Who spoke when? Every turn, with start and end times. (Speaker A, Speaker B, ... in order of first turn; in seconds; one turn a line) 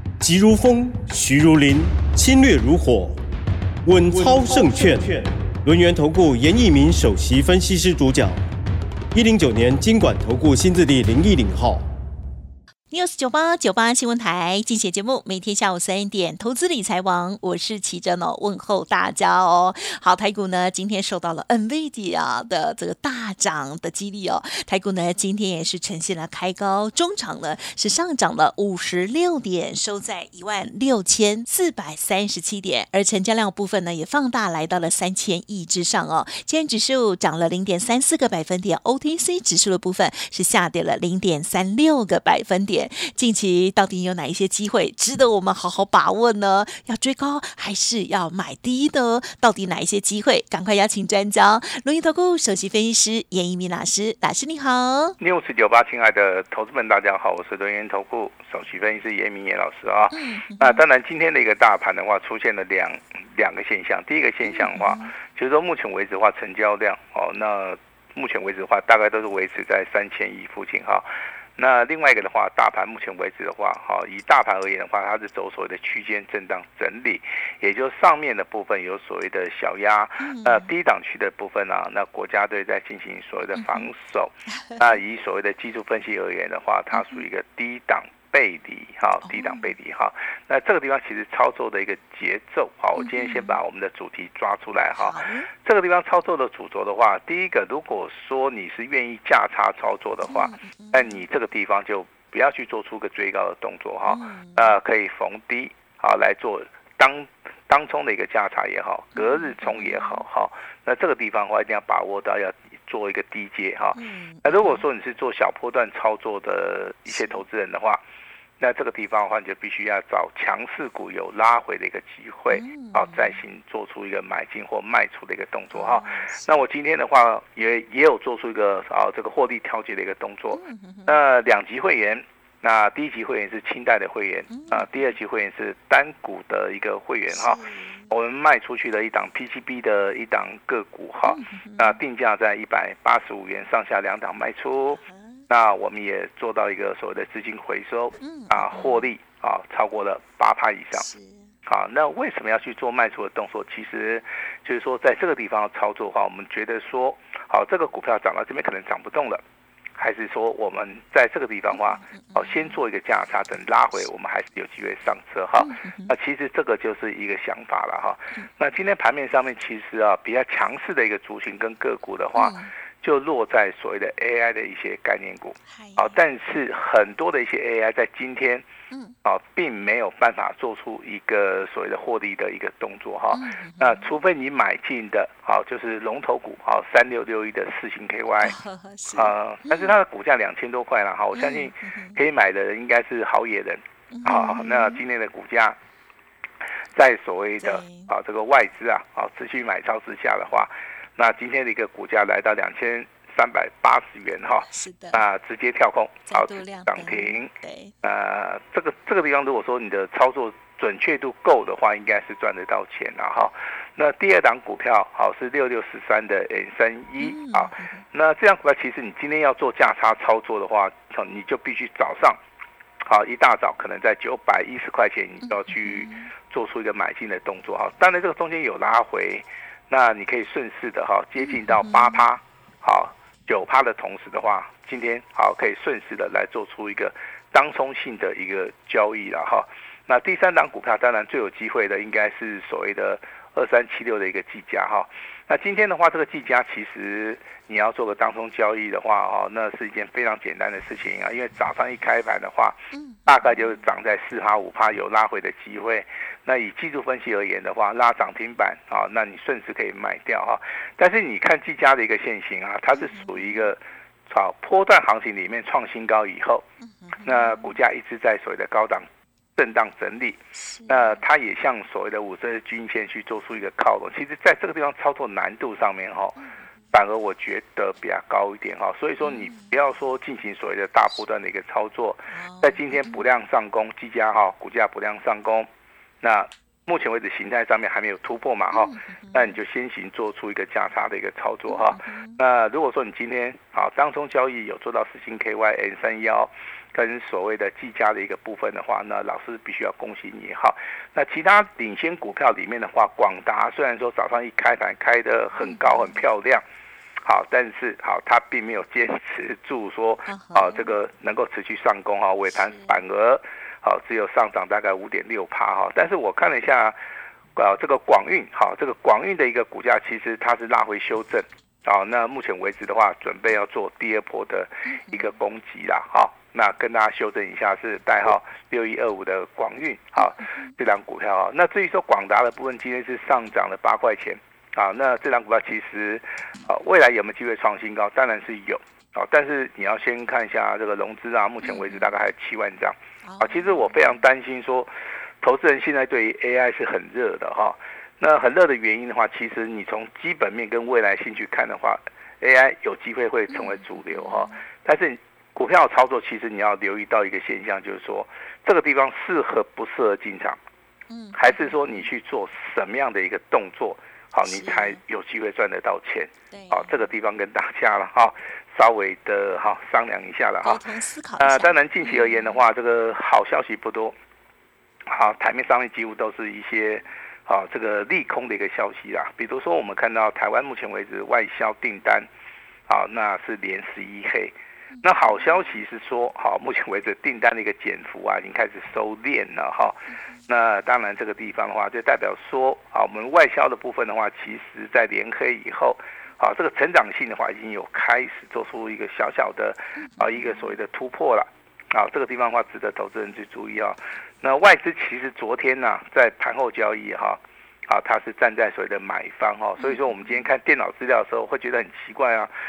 Speaker A: 0.2-3.2
Speaker A: 3.8-8.4
Speaker A: 9.1-11.9
Speaker B: 12.9-55.2
Speaker C: 55.2-71.1
Speaker B: 60.1-60.8
Speaker B: 64.5-65.1
Speaker C: 71.6-118.0
Speaker B: 80.2-80.7
Speaker B: 83.5-83.9
Speaker B: 86.9-87.2
Speaker B: 89.2-89.7
Speaker B: 93.0-93.6
Speaker B: 94.9-95.5
Speaker B: 100.2-101.2
Speaker B: 104.1-104.8
Speaker B: 109.2-110.2
Speaker B: 114.0-114.8
Speaker B: 117.1-117.4
Speaker C: 118.6-151.1
Speaker B: 122.5-123.3
Speaker B: 125.7-126.6
Speaker B: 130.5-131.2
Speaker B: 134.5-135.0
Speaker B: 137.3-138.1
Speaker B: 141.3-142.0
Speaker B: 145.0-145.4
Speaker B: 148.2-149.1
Speaker B: 151.0-151.4
Speaker C: 151.7-159.4
Speaker C: 160.0-178.6
Speaker B: 161.8-162.8
Speaker B: 165.6-166.1
Speaker B: 172.4-172.7
Speaker B: 175.7-176.2
Speaker C: 179.2-188.6
Speaker B: 183.3-184.1
Speaker B: 188.4-189.9
Speaker C: 189.1-195.8
Speaker B: 191.3-192.2
Speaker B: 194.1-195.0
Speaker C: 196.9-207.5
Speaker B: 197.6-198.1
Speaker B: 204.7-205.2
Speaker B: 206.3-207.9
Speaker C: 208.0-222.4
Speaker B: 217.2-218.0
Speaker C: 223.1-266.6
Speaker B: 225.4-226.3
Speaker B: 231.4-232.2
Speaker B: 252.9-253.7
Speaker B: 262.9-263.6
Speaker B: 266.8-267.8
Speaker C: 267.2-276.4
Speaker B: 270.6-271.2
Speaker C: 276.9-285.7
Speaker B: 279.2-279.7
Speaker B: 282.3-283.2
Speaker C: 286.2-306.6
Speaker B: 288.7-289.6
Speaker B: 291.7-292.4
Speaker B: 305.6-306.2
Speaker C: 307.2-317.0
Speaker B: 310.3-310.9
Speaker B: 312.6-312.9
Speaker C: 317.6-344.9
Speaker B: 324.9-325.3
Speaker B: 330.4-330.7
Speaker B: 341.6-342.1
Speaker B: 343.2-344.1
Speaker C: 345.4-360.6
Speaker B: 353.5-354.6
Speaker B: 361.1-362.0
Speaker C: 361.4-370.8
Speaker B: 364.4-365.0
Speaker B: 366.5-367.0
Speaker B: 370.6-372.6
Speaker C: 371.4-374.1
Speaker C: 375.1-382.3
Speaker C: 382.9-412.5
Speaker B: 400.2-400.5
Speaker B: 409.8-410.4